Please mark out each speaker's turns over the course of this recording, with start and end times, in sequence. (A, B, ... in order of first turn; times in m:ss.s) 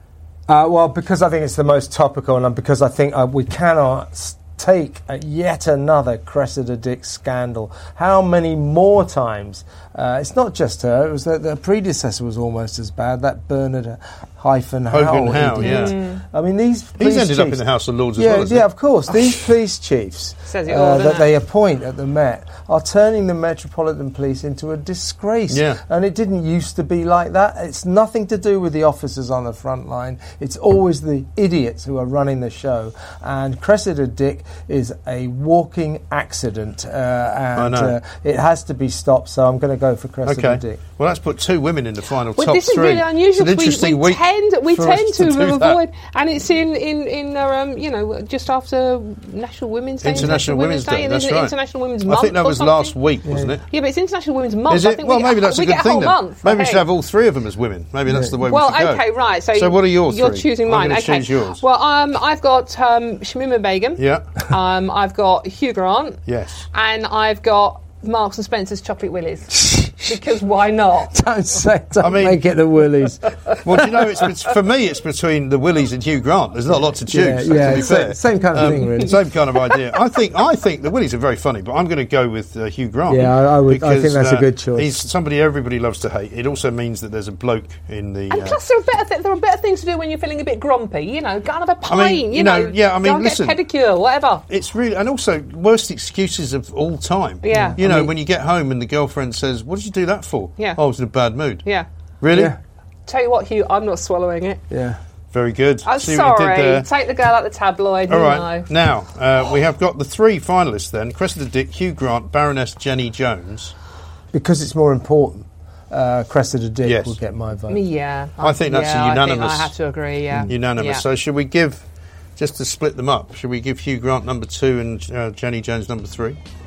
0:00.5-0:17.6 A
0:14.9-0:16.0 B
0:15.6-0:16.2 C
0:17.0-0:18.6 B
0:18.2-0:40.8 A
0:20.5-0:21.3 C
0:25.5-0:25.8 B
0:37.6-0:38.0 B
0:40.2-0:45.8 B
0:42.4-0:52.9 C
0:50.0-0:51.5 B
0:52.0-0:53.6 B
0:53.2-0:53.5 A
0:53.7-0:56.8 C
0:54.7-1:01.6 B
0:58.1-0:58.3 A
0:58.4-1:06.2 C
1:04.0-1:04.3 B
1:06.3-1:06.6 B
1:06.7-1:11.2 C
1:09.5-1:10.3 A
1:11.1-1:14.3 A
1:12.0-1:12.4 B
1:13.6-1:28.6 B
1:17.1-1:19.2 A
1:23.1-1:25.0 A
1:28.3-1:34.4 C
1:31.9-1:33.6 B
1:34.5-1:41.6 B
1:37.4-1:37.8 C
1:37.5-1:38.1 A
1:42.2-1:42.5 B
1:42.3-1:42.6 A
1:43.1-1:44.6 C
1:44.7-1:45.0 A
1:45.3-1:46.9 B
1:45.8-1:48.7 C
1:48.1-1:53.7 B
1:54.3-1:57.8 A
1:56.8-1:57.2 B
1:57.7-2:01.0 C
1:58.4-1:59.7 B
2:00.5-2:01.8 B
2:02.4-2:06.4 B